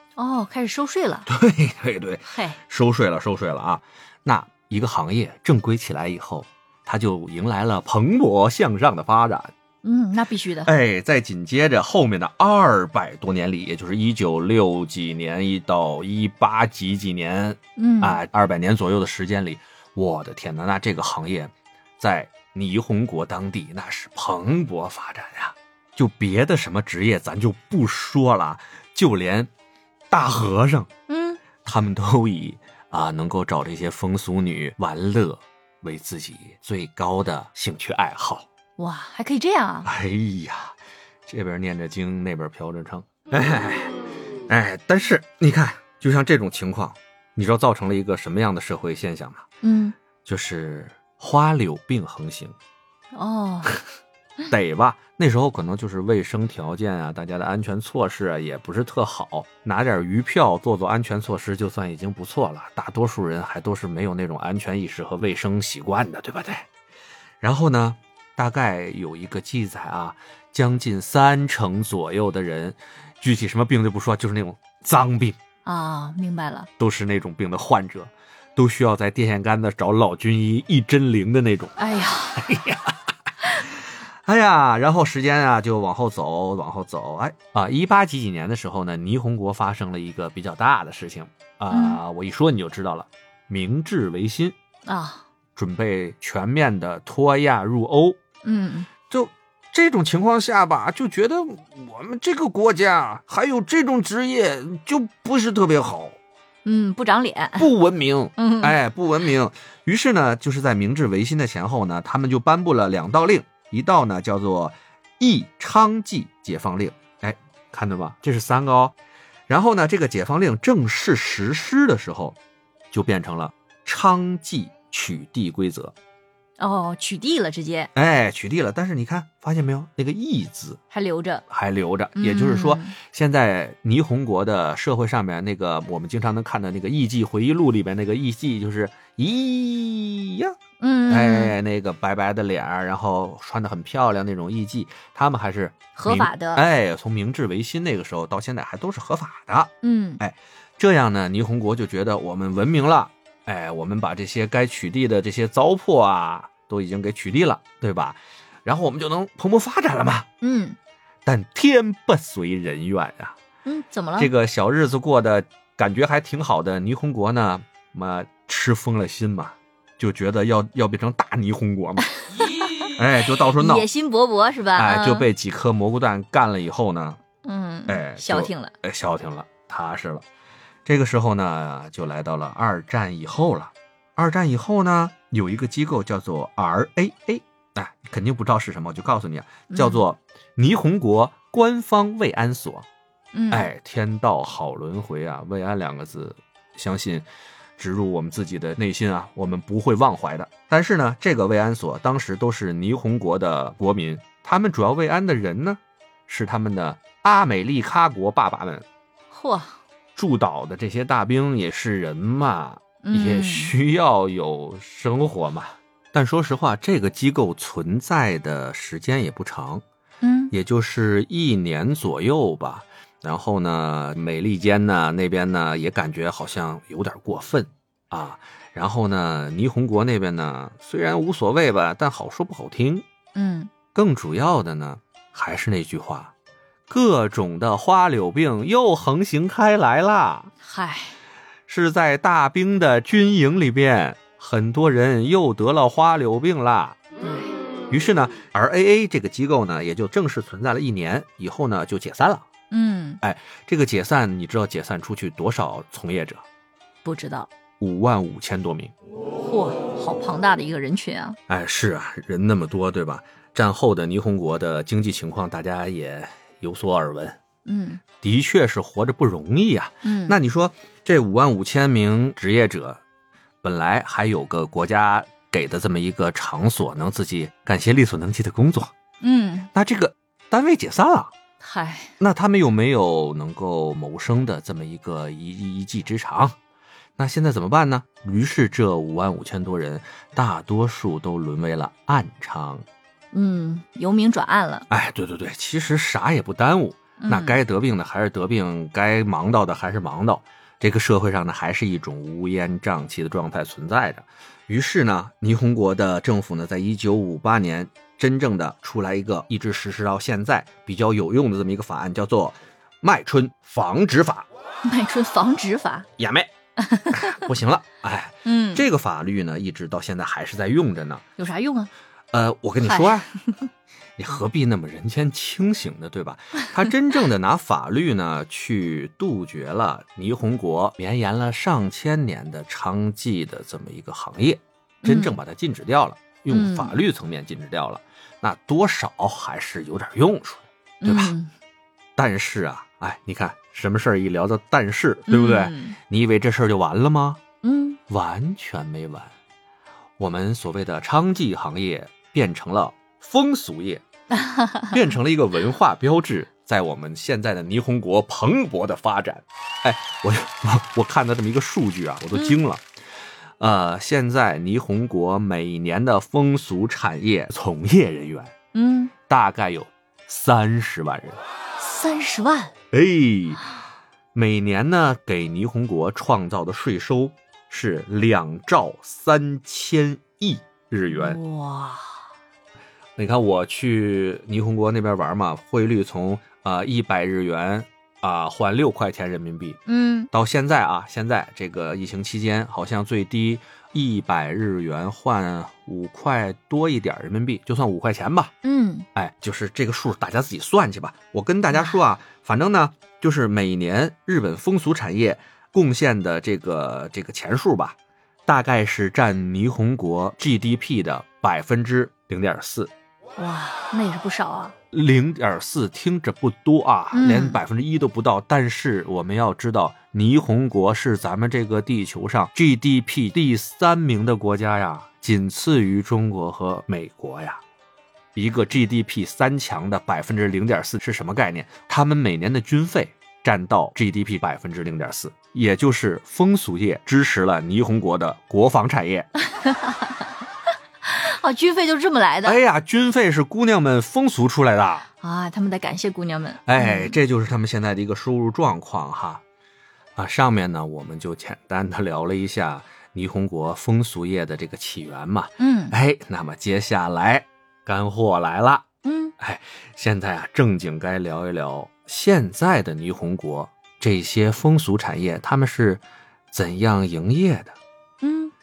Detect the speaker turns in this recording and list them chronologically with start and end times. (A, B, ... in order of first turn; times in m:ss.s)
0:00.2-0:01.3 A
0:01.3-0:09.5 B
0:02.3-0:02.6 A
0:09.8-0:10.7 A
0:10.6-0:29.5 B
0:17.8-0:18.2 A
0:30.1-0:30.9 B
0:31.1-0:31.4 A
0:31.6-0:38.4 B
0:38.8-0:39.9 A
0:39.8-0:40.8 B
0:41.3-0:43.9 B
0:44.5-0:49.4 B
0:49.6-0:49.9 A
0:50.2-0:52.6 B
0:53.1-0:53.8 A
0:54.5-1:06.7 B
1:07.4-1:15.4 B
1:15.6-1:16.7 A
1:16.8-1:21.8 B
1:21.8-1:22.4 A
1:22.4-1:22.9 B
1:24.2-1:34.6 B
1:31.7-1:32.0 A
1:34.8-1:35.2 A
1:35.6-1:38.2 B
1:38.4-1:38.9 A
1:39.1-1:46.2 B
1:46.6-1:47.7 A
1:47.6-1:58.9 B
1:48.4-1:48.7 A
1:59.5-2:02.4 B
2:02.9-2:05.9 B
2:06.6-2:07.9 A
2:07.9-2:10.8 B
2:10.9-2:11.4 A
2:11.5-2:20.5 B
2:12.2-2:12.9 A
2:20.8-2:21.6 A
2:21.1-2:40.3 B
2:26.0-2:26.6 A
2:29.8-2:30.2 A
2:40.4-2:40.8 A
2:41.2-2:43.4 B
2:43.6-2:44.3 A
2:44.2-2:52.1 B
2:52.3-2:52.9 A
2:52.9-2:53.9 B
2:53.6-2:55.3 A
2:54.8-2:57.2 B
2:57.4-2:58.7 A
2:57.9-3:00.2 B
3:00.8-3:12.8 B
3:09.7-3:10.0 A
3:13.3-3:13.7 A
3:13.5-3:17.2 B
3:17.8-3:28.8 B
3:29.3-3:29.8 A
3:30.2-3:39.8 B
3:33.0-3:33.7 A
3:40.2-3:40.5 A
3:40.5-3:53.0 B
3:53.3-3:53.7 A
3:53.9-3:56.3 B
3:56.9-4:00.5 B
4:00.6-4:01.2 A
4:01.7-4:07.0 B
4:07.2-4:07.5 A
4:07.9-4:12.4 B
4:12.7-4:13.2 A
4:13.2-4:16.4 B
4:17.0-4:17.5 A
4:17.8-4:18.9 B
4:19.4-4:21.4 A
4:21.5-4:27.4 B
4:27.6-4:28.0 A
4:28.2-4:33.0 B
4:30.0-4:30.4 A
4:33.6-4:38.9 B
4:39.2-4:39.7 A
4:39.7-4:41.3 B
4:41.6-4:42.1 A
4:42.2-4:46.6 B
4:47.2-4:52.8 B
4:53.3-4:54.8 A
4:54.9-5:14.5 B
4:57.2-4:57.6 A
5:14.8-5:16.1 A
5:16.2-5:16.5 B
5:16.8-5:17.4 A
5:17.1-5:21.2 B
5:18.4-5:18.8 A
5:21.4-5:21.9 A
5:22.3-5:23.3 B
5:22.8-5:23.3 A
5:24.2-5:41.3 B
5:35.0-5:35.4 A
5:36.5-5:37.0 A
5:41.0-5:41.5 A
5:42.2-5:47.4 B
5:45.3-5:46.0 A
5:47.6-5:48.0 A
5:48.1-5:49.3 B
5:50.2-5:54.0 B
5:54.3-5:54.9 A
5:54.9-6:02.8 B
6:02.3-6:02.6 A
6:03.6-6:08.5 B
6:08.7-6:09.1 A
6:09.3-6:11.4 B
6:11.8-6:12.7 A
6:12.9-6:13.6 B
6:14.3-6:21.4 B
6:21.1-6:22.0 A
6:23.2-6:29.8 B
6:29.8-6:30.3 A
6:30.3-6:38.5 B
6:38.6-6:39.1 A
6:39.2-6:48.0 B
6:48.5-6:52.9 B
6:53.4-6:54.7 A
6:54.9-7:07.6 B
6:57.1-6:57.6 A
7:08.3-7:19.3 B
7:19.5-7:20.2 A
7:21.0-7:22.6 A
7:22.4-7:25.1 B
7:25.2-7:27.2 A
7:26.6-7:29.4 B
7:30.2-7:38.9 B
7:35.6-7:35.9 A
7:39.0-7:39.3 A
7:39.4-7:47.8 B
7:48.2-7:48.5 A